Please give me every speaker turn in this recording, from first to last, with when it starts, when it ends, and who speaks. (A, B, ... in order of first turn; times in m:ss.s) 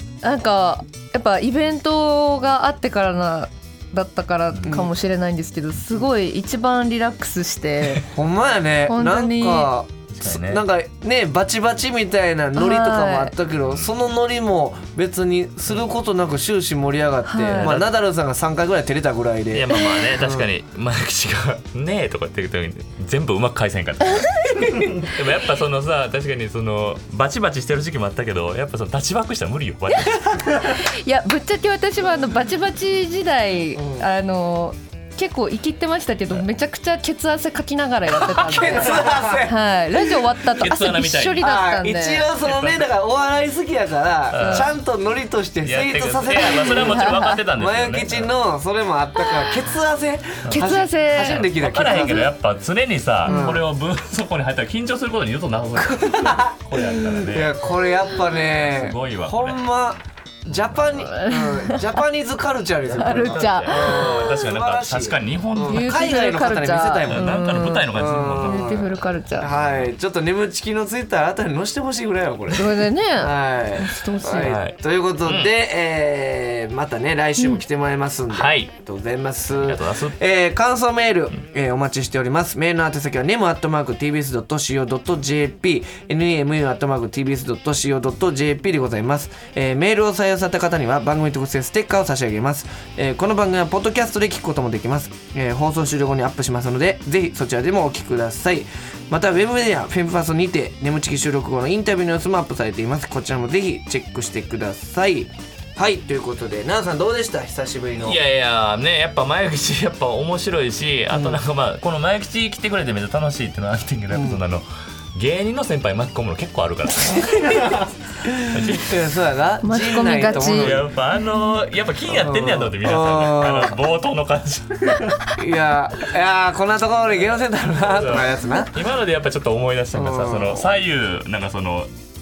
0:00.2-0:08.1 A
0:08.0-0:20.5 B
0:08.9-0:09.7 A
0:10.1-0:10.6 C
0:12.5-0:13.3 A
0:17.2-0:17.7 A
0:17.6-0:17.9 C
0:19.5-0:30.4 C
0:24.5-0:24.8 A
0:29.9-0:42.3 A
0:33.7-0:34.0 B
0:38.2-0:39.6 B
0:40.6-0:41.4 C
0:41.4-0:52.3 B
0:42.4-0:42.8 C
0:44.3-0:44.7 C
0:44.4-0:44.7 A
0:45.6-0:48.3 C
0:46.6-0:47.4 A
0:49.2-0:49.5 A
0:50.4-0:57.6 C
0:50.5-0:52.3 A
0:53.2-0:53.7 B
0:53.2-0:53.6 A
0:55.8-1:48.2 B
0:58.3-0:59.6 C
1:01.0-1:01.8 A
1:03.0-1:04.3 A
1:03.0-1:05.9 C
1:05.7-1:07.9 A
1:07.1-1:08.8 C
1:08.4-1:09.5 A
1:09.5-1:09.9 C
1:12.5-1:14.6 A
1:14.4-1:15.5 C
1:18.3-1:18.7 C
1:19.5-1:20.2 C
1:48.0-1:57.9 C
1:51.1-1:51.4 B
1:54.1-1:54.4 B
1:58.2-2:00.9 B
1:58.4-1:59.0 C
1:59.6-2:00.8 A
2:00.0-2:05.2 C
2:02.1-2:03.8 B
2:05.3-2:08.7 B
2:07.8-2:11.9 C
2:09.9-2:10.7 B